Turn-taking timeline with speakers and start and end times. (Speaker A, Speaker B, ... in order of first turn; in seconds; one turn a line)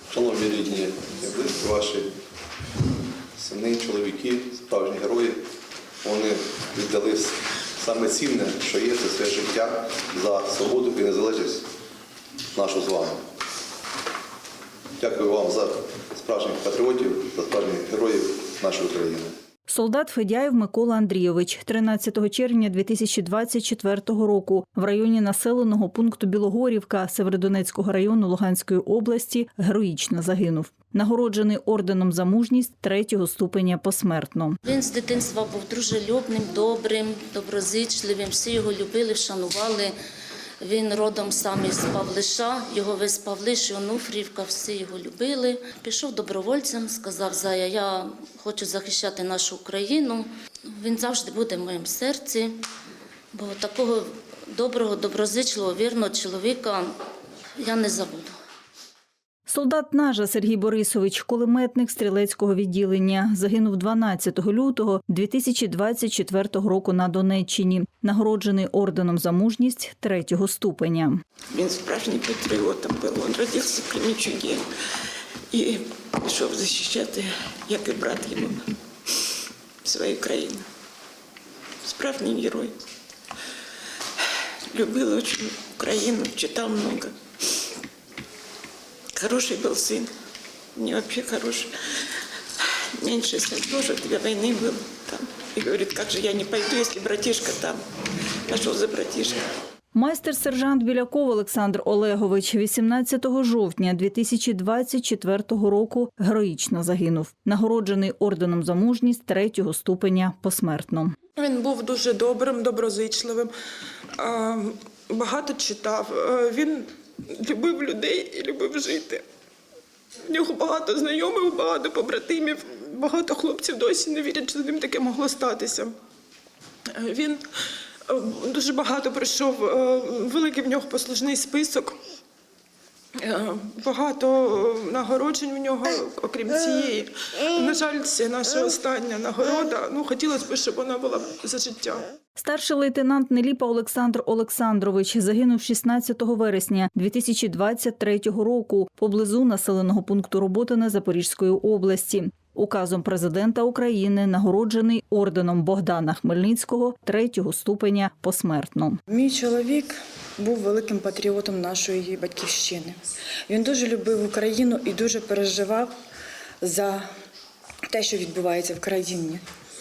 Speaker A: 0.1-2.1
Speaker A: 3.4-5.4
Speaker A: 6.0-11.7
Speaker A: 12.5-13.2
Speaker A: 15.0-19.3
Speaker B: 19.7-34.6
Speaker C: 34.6-39.9
Speaker C: 40.6-52.5
Speaker C: 53.3-56.9
Speaker C: 57.6-58.3
Speaker B: 59.5-71.2
Speaker D: 71.5-74.6
Speaker D: 75.5-78.6
Speaker D: 79.8-80.6
Speaker D: 81.8-82.7
Speaker D: 84.7-87.1
Speaker D: 89.1-90.1
Speaker D: 90.8-91.7
Speaker D: 93.0-97.8
Speaker D: 98.5-99.4
Speaker B: 99.9-111.1
Speaker E: 111.4-113.5
Speaker E: 114.2-119.2
Speaker E: 120.2-125.9
Speaker E: 126.9-127.4
Speaker E: 128.1-132.0
Speaker E: 133.2-142.1
Speaker B: 142.4-159.0
Speaker F: 159.1-165.9
Speaker F: 166.6-167.1
Speaker F: 167.9-169.4